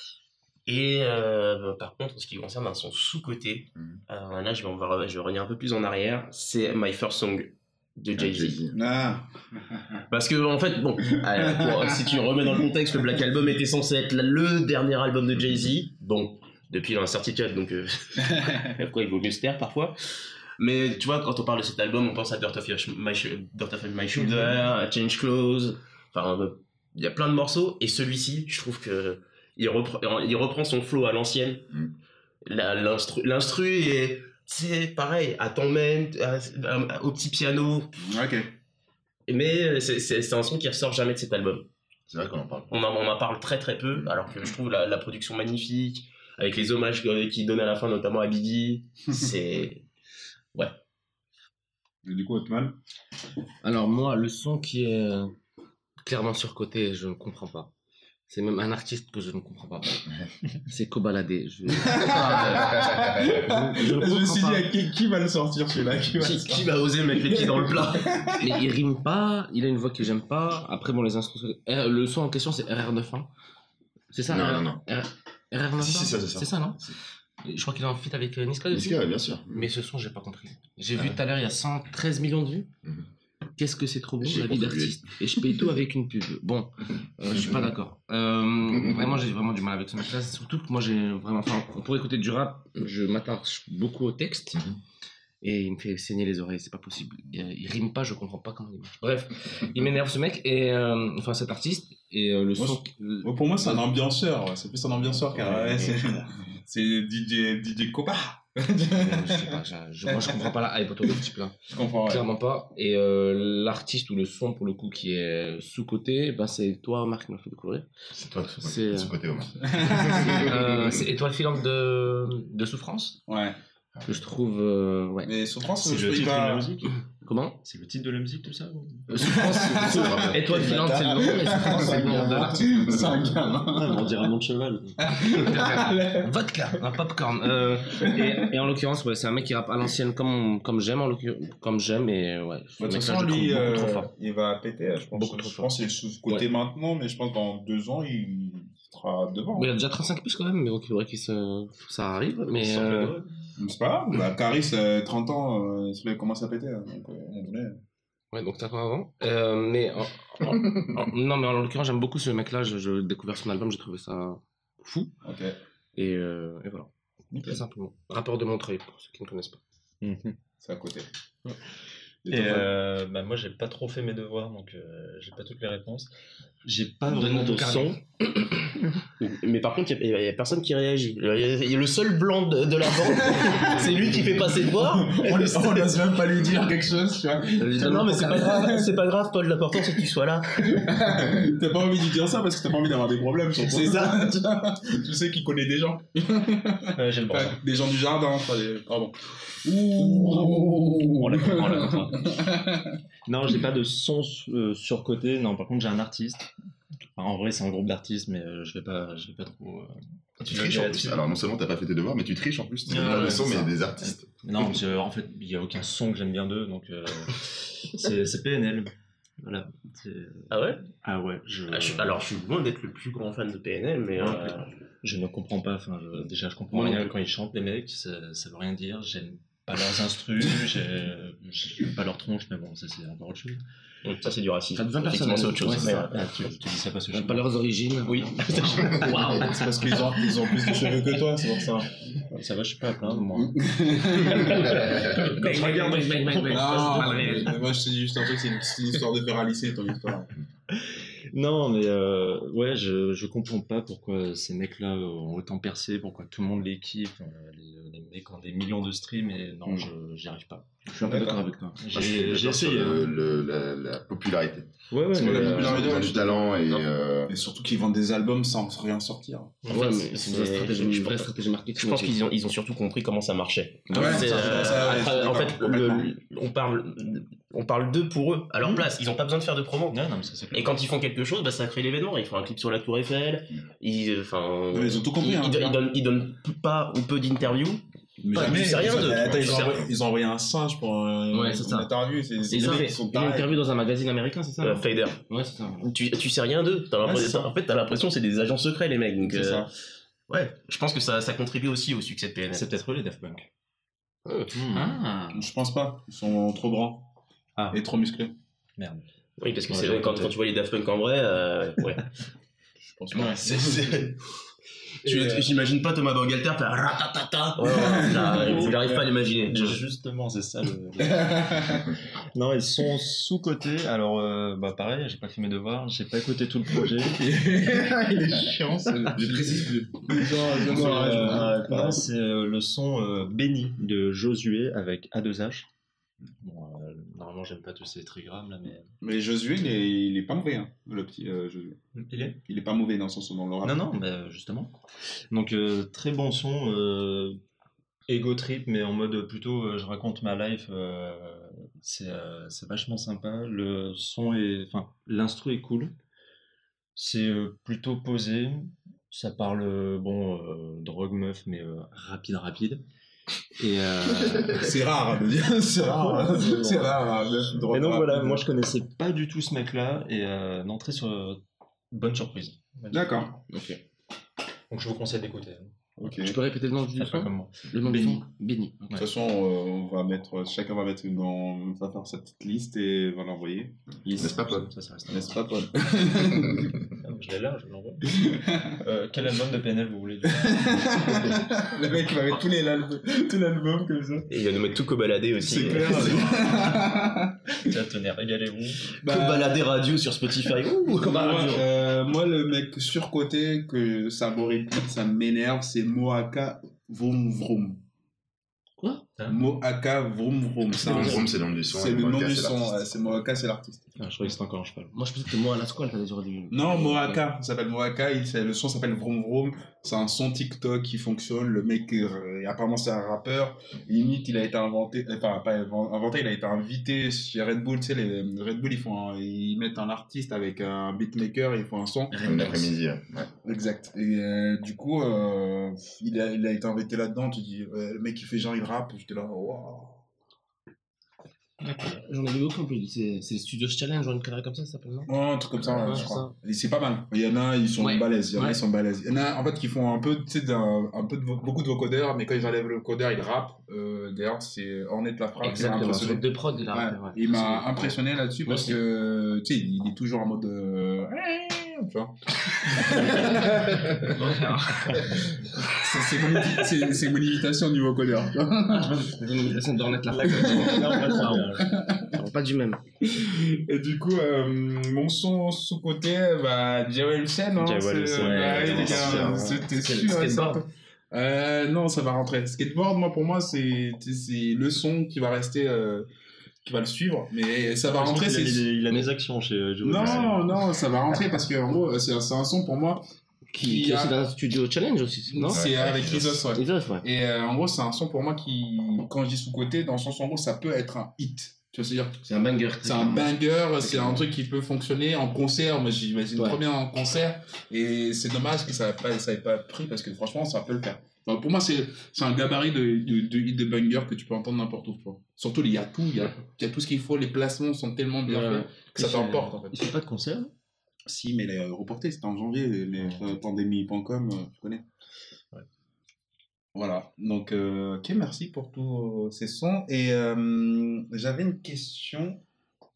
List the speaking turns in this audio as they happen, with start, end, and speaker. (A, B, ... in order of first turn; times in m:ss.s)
0:00.6-0:08.6 A
0:08.1-0:08.8 B
0:08.7-0:10.0 C
0:10.1-0:20.0 A
0:11.4-0:12.2 C
0:18.3-0:18.6 C
0:20.6-0:31.6 A
0:32.4-0:38.0 A
0:38.0-0:38.5 C
0:39.3-0:41.7 A
0:42.1-0:42.8 B
0:42.7-0:49.8 A
0:43.9-0:44.3 B
0:50.5-0:50.8 A
0:52.0-0:52.8 C
0:53.6-0:55.4 D
0:56.0-0:57.7 D
0:58.3-1:00.0 D
1:00.6-1:04.7 D
1:01.8-1:08.5 C
1:02.6-1:03.4 B
1:06.2-1:08.3 A
1:08.4-1:13.3 D
1:14.1-1:22.7 D
1:14.3-1:14.8 B
1:15.8-1:17.0 B
1:18.7-1:19.7 B
1:23.6-1:34.6 D
1:24.2-1:25.7 B
1:27.3-1:27.7 B
1:28.7-1:29.2 B
1:34.5-1:34.8 B
1:35.4-1:43.9 D
1:42.6-1:50.5 C
1:45.1-1:46.3 D
1:48.9-1:57.9 D
1:51.0-1:52.3 C
1:58.1-2:01.1 B
1:58.6-1:59.1 D
1:59.8-2:00.5 C
1:59.9-2:03.2 D
2:03.3-2:03.6 C
2:03.9-2:04.2 B
2:04.0-2:05.3 D
2:05.2-2:06.7 C
2:05.8-2:06.9 E
2:07.2-2:07.6 D
2:07.6-2:09.1 E
2:09.1-2:10.6 B
2:09.1-2:13.3 D
2:09.2-2:14.2 C
2:11.6-2:13.4 B
2:13.6-2:15.3 E
2:15.0-2:16.3 C
2:15.2-2:24.1 D
2:18.0-2:18.5 C
2:22.8-2:29.7 C
2:25.1-2:25.7 D
2:29.5-2:33.2 D
2:32.5-2:33.2 E
2:33.6-2:37.8 C
2:38.3-2:45.2 D
2:40.5-2:41.0 B
2:45.2-2:45.6 C
2:45.9-2:49.6 D
2:47.3-2:47.6 C
2:50.0-2:50.4 E
2:50.6-2:51.1 C
2:52.2-2:52.7 C
2:52.3-2:56.1 E
2:56.6-2:58.0 E
2:57.1-3:05.9 A
3:03.0-3:08.9 C
3:07.6-3:08.7 D
3:07.8-3:10.9 A
3:10.6-3:23.0 C
3:13.8-3:14.2 D
3:16.9-3:17.6 E
3:20.0-3:22.4 E
3:23.2-3:26.5 E
3:27.1-3:31.2 E
3:30.4-3:34.3 B
3:32.9-3:33.8 E
3:34.4-3:42.2 E
3:40.5-3:40.8 A
3:41.7-3:44.7 A
3:44.2-3:53.6 E
3:46.7-3:47.1 A
3:54.0-3:56.1 A
3:54.8-3:56.1 D
3:55.3-3:57.4 E
3:57.1-4:01.0 D
3:58.0-3:59.4 A
3:58.8-3:59.3 B
3:59.4-4:01.9 C
4:02.2-4:04.0 E
4:03.4-4:05.8 C
4:04.2-4:07.6 D
4:04.8-4:05.1 B
4:05.4-4:06.8 A
4:05.4-4:07.6 E
4:06.5-4:10.3 C
4:10.8-4:23.1 E
4:20.9-4:22.2 D
4:21.0-4:21.4 C
4:21.9-4:24.7 B
4:24.9-4:26.0 E
4:25.1-4:26.6 C
4:25.2-4:27.4 B
4:27.3-4:29.6 C
4:29.6-4:29.9 E
4:29.7-4:32.2 D
4:29.7-4:40.0 A
4:33.9-4:34.8 E
4:33.9-4:36.1 C
4:38.6-4:38.9 E
4:39.9-4:40.8 E
4:40.5-4:49.9 A
4:44.7-4:45.8 C
4:48.2-4:53.5 C
4:48.9-4:49.9 B
4:51.3-4:51.9 D
4:52.5-4:55.9 D
4:52.5-4:53.0 A
4:54.6-4:55.2 A
4:55.8-4:59.7 A
4:57.0-4:57.5 C
4:59.2-4:59.7 C
5:00.3-5:02.8 A
5:02.5-5:03.5 E
5:04.3-5:05.5 D
5:04.5-5:05.0 E
5:05.3-5:07.1 C
5:07.6-5:07.8 E
5:07.7-5:08.3 C
5:08.8-5:09.0 E
5:09.4-5:12.2 A
5:09.6-5:10.4 E
5:12.8-5:14.1 C
5:13.1-5:14.2 A
5:15.0-5:19.8 A
5:15.0-5:15.4 C
5:17.6-5:18.7 C
5:18.3-5:27.3 E
5:21.1-5:21.9 C
5:27.0-5:32.0 C
5:28.9-5:29.6 E
5:30.6-5:35.7 E
5:30.7-5:31.0 A
5:30.7-5:31.5 D
5:36.4-5:38.9 E
5:39.0-5:41.8 C
5:41.9-5:42.4 E
5:42.4-5:43.8 C
5:43.6-5:44.7 E
5:45.3-5:47.4 E
5:48.1-5:55.9 E
5:56.9-6:02.8 E
6:03.5-6:04.8 E
6:04.4-6:08.4 C
6:05.8-6:07.0 E
6:07.7-6:13.4 E
6:12.9-6:13.4 C
6:13.5-6:13.8 D
6:14.7-6:15.8 E
6:16.0-6:16.4 C
6:16.1-6:18.9 D
6:16.9-6:18.2 E
6:18.9-6:24.4 C
6:24.0-6:25.5 E
6:24.1-6:24.7 B
6:25.1-6:26.8 C
6:26.3-6:26.7 B
6:26.8-6:31.3 E
6:28.1-6:28.7 C
6:30.3-6:34.3 C
6:34.3-6:36.4 A
6:35.4-6:37.6 C
6:35.5-6:36.9 E
6:37.6-6:39.0 E
6:39.0-6:39.6 C
6:39.0-6:41.6 A
6:40.9-6:47.8 C
6:48.8-6:49.2 D
6:49.2-6:49.4 E
6:49.3-6:53.9 C
6:50.8-6:51.2 D
6:50.8-6:53.2 B
6:54.0-6:54.9 E
6:54.9-6:57.2 D
6:56.5-7:12.4 C
7:12.1-7:12.7 D
7:12.2-7:13.3 B
7:13.4-7:20.0 C
7:21.6-7:25.1 D
7:25.1-7:44.4 C
7:25.6-7:26.0 B
7:25.6-7:26.3 D
7:27.8-7:28.6 D
7:35.4-7:37.9 D
7:38.4-7:38.8 D
7:43.0-7:45.2 D
7:44.8-7:45.1 E
7:45.0-7:49.1 C
7:48.7-7:52.8 D
7:50.1-7:51.8 E
7:50.4-7:52.2 C
7:53.0-8:06.1 C
7:57.6-7:59.7 E
7:58.2-8:00.6 D
7:58.6-7:59.6 B
8:06.6-8:08.6 C
8:07.8-8:10.6 E
8:09.8-8:13.0 C
8:09.9-8:10.3 B
8:13.5-8:17.0 D
8:13.6-8:14.1 C
8:15.3-8:22.2 C
8:15.5-8:16.5 B
8:22.2-8:24.2 D
8:22.8-8:39.8 C
8:26.4-8:26.6 D
8:38.3-8:38.6 D
8:38.3-8:40.5 E
8:41.0-8:44.8 C
8:46.7-8:52.4 C